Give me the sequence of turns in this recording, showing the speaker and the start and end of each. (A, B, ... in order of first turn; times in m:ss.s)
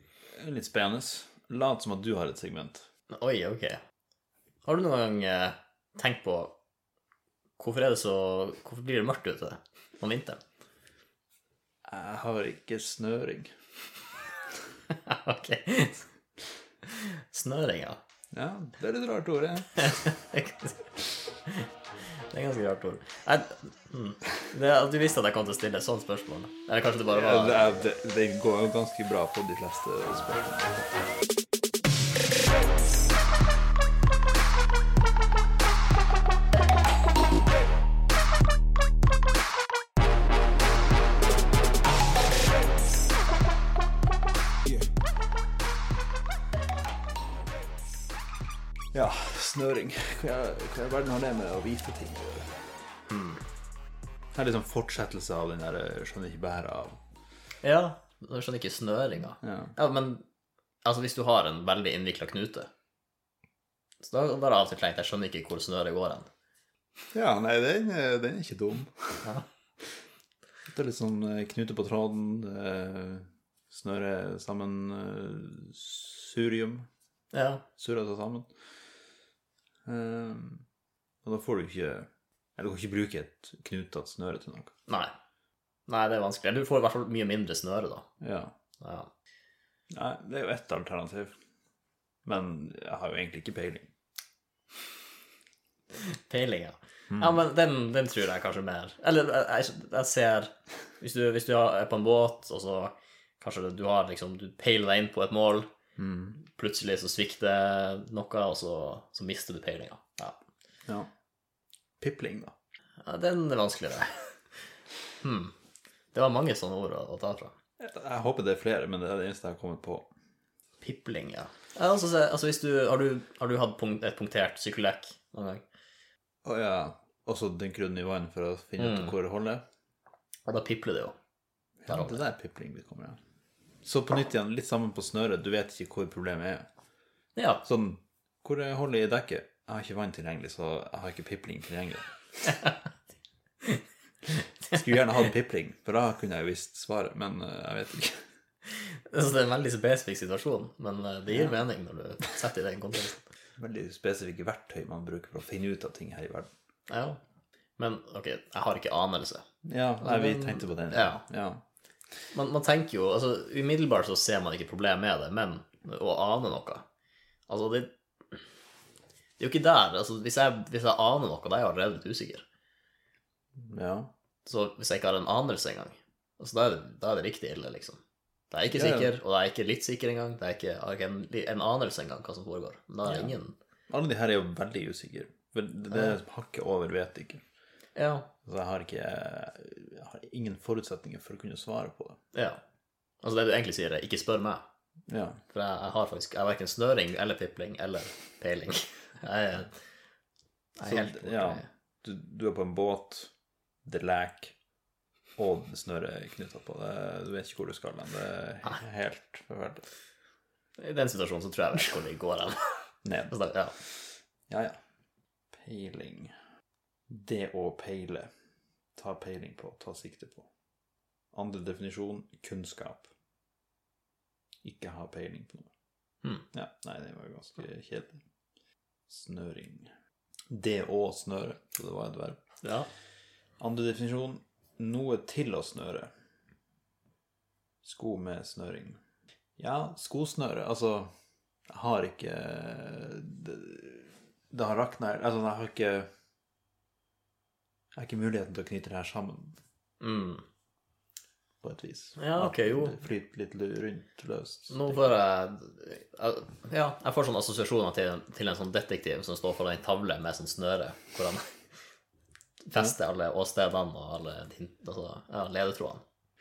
0:00.4-0:02.9 A
0:03.1-0:03.8 B
0:04.6-0:06.5 B
0:07.6-0:10.4 B
0:11.9-0:13.5 A
0:14.9-0:16.0 B
0:16.8-0:18.0 B
0:18.3-0:20.1 A
0:19.8-0:21.7 B
0:22.3-0:27.7 B
0:27.1-0:30.9 A
0:48.9-0:52.6 A
0:53.1-0:53.4 B
0:54.3-0:57.0 A
0:57.6-1:00.2 B
0:59.4-0:59.7 A
1:00.8-1:02.7 B
1:04.0-1:06.3 B
1:07.1-1:09.3 A
1:10.7-1:16.9 A
1:17.3-1:17.6 B
1:17.8-1:18.5 A
1:19.8-1:20.6 A
1:21.2-1:24.7 A
1:24.9-1:25.1 B
1:25.9-1:28.1 B
1:28.2-1:28.5 A
1:28.8-1:29.1 B
1:29.9-1:31.3 A
1:32.2-1:33.9 A
1:35.9-1:45.7 B
1:37.1-1:37.4 A
1:46.0-1:46.4 A
1:46.4-1:50.4 B
1:52.0-1:52.5 A
1:53.0-1:54.4 B
1:55.2-1:55.5 B
1:56.1-1:57.5 B
1:57.8-2:00.1 A
2:00.8-2:05.6 B
2:06.4-2:09.6 A
2:08.8-2:09.2 B
2:10.4-2:11.2 B
2:11.8-2:13.2 A
2:11.9-2:12.2 B
2:13.8-2:16.6 A
2:17.4-2:17.6 B
2:17.6-2:22.1 A
2:22.5-2:22.8 B
2:23.6-2:24.8 B
2:24.7-2:28.2 A
2:28.6-2:33.2 B
2:31.3-2:31.6 A
2:33.6-2:36.5 A
2:36.9-2:37.2 B
2:37.8-2:39.4 B
2:39.6-2:41.6 A
2:40.0-2:41.2 B
2:42.3-2:46.8 B
2:47.5-2:48.4 B
2:49.4-2:52.4 B
2:53.6-2:54.1 A
2:54.4-2:58.0 B
2:58.5-3:03.6 B
2:58.7-2:59.1 A
3:03.0-3:03.3 A
3:03.9-3:07.4 A
3:07.9-3:08.3 B
3:08.4-3:12.2 A
3:12.3-3:12.6 B
3:13.2-3:14.6 B
3:15.1-3:15.4 A
3:15.5-3:19.7 B
3:20.8-3:21.6 B
3:20.8-3:23.3 A
3:23.8-3:24.5 A
3:25.4-3:29.8 A
3:30.8-3:33.7 B
3:33.0-3:33.3 A
3:34.5-3:34.8 A
3:35.5-3:36.3 A
3:37.1-3:38.3 A
3:39.0-3:40.5 A
3:41.3-3:43.1 A
3:44.6-3:45.7 A
3:46.5-3:48.2 A
3:49.1-3:49.9 A
3:50.5-3:52.4 A
3:52.6-3:52.9 B
3:53.6-3:56.1 A
3:57.8-3:59.0 A
3:59.6-4:01.1 A
4:01.7-4:06.1 A
4:08.0-4:09.6 A
4:10.0-4:10.4 B
4:11.6-4:15.1 A
4:12.2-4:12.9 B
4:14.7-4:21.4 B
4:22.6-4:26.0 B